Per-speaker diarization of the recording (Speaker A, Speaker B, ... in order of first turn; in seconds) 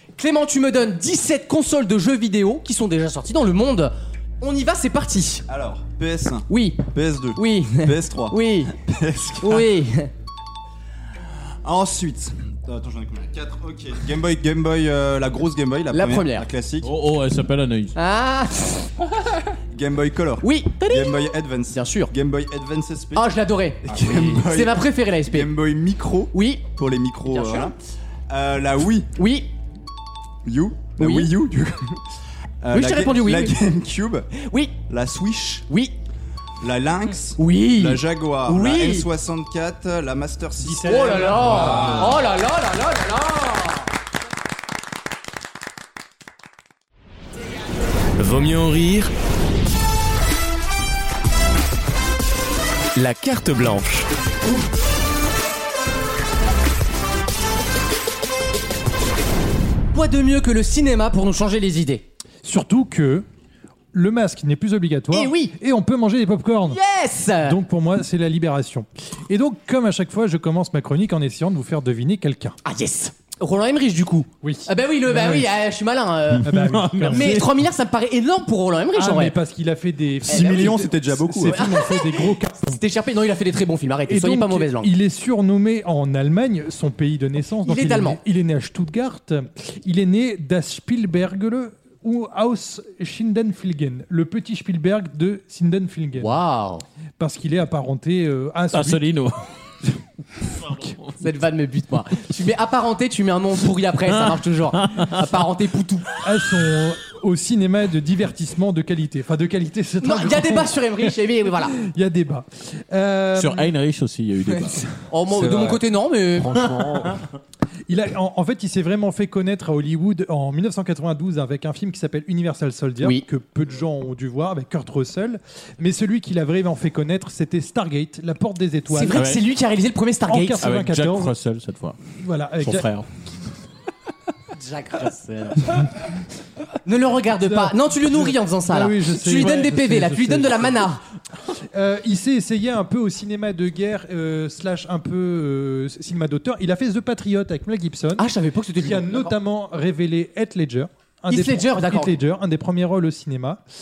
Speaker A: 0.2-5.5, 6.5-6.8, 7.4-8.7, 9.4-10.1, 15.9-16.5, 18.0-18.9, 20.4-22.1, 23.1-25.5, 26.3-26.6, 27.3-27.7, 29.2-29.5, 31.0-31.3, 32.7-33.6, 34.4-34.8, 35.7-36.0, 37.4-39.1, 40.9-43.8, 59.9-62.0, 65.1-65.5, 66.7-67.6, 72.7-76.5, 77.1-79.4, 80.3-80.8, 81.4-84.9, 87.7-88.2, 96.2-96.8, 101.2-106.1, 110.0-111.8, 115.1-116.5, 128.9-130.6, 134.6-135.9, 136.8-141.0, 148.2-149.3, 151.3-152.2
Speaker B: 5.5-9.7, 11.6-16.9, 19.7-23.3, 23.8-27.8, 28.3-29.1, 30.4-32.0, 32.6-34.3, 34.9-35.7, 36.6-41.6, 80.2-81.6
Speaker C: 16.8-17.9, 76.5-77.5, 98.7-99.4, 100.5-101.1, 104.8-105.2, 113.4-114.8, 130.6-132.0, 132.6-133.1
Speaker D: 40.6-41.9, 62.4-63.2, 63.9-66.8, 67.4-72.6, 74.4-75.5, 76.4-77.5, 79.0-82.8, 84.1-96.4, 97.2-99.0, 106.2-110.8, 111.8-113.7, 117.9-129.2, 130.3-131.3, 132.2-132.9, 137.4-140.8, 141.7-148.3, 148.8-153.6
Speaker E: 41.4-42.2, 115.3-117.2
Speaker F: 48.2-49.1, 53.0-54.1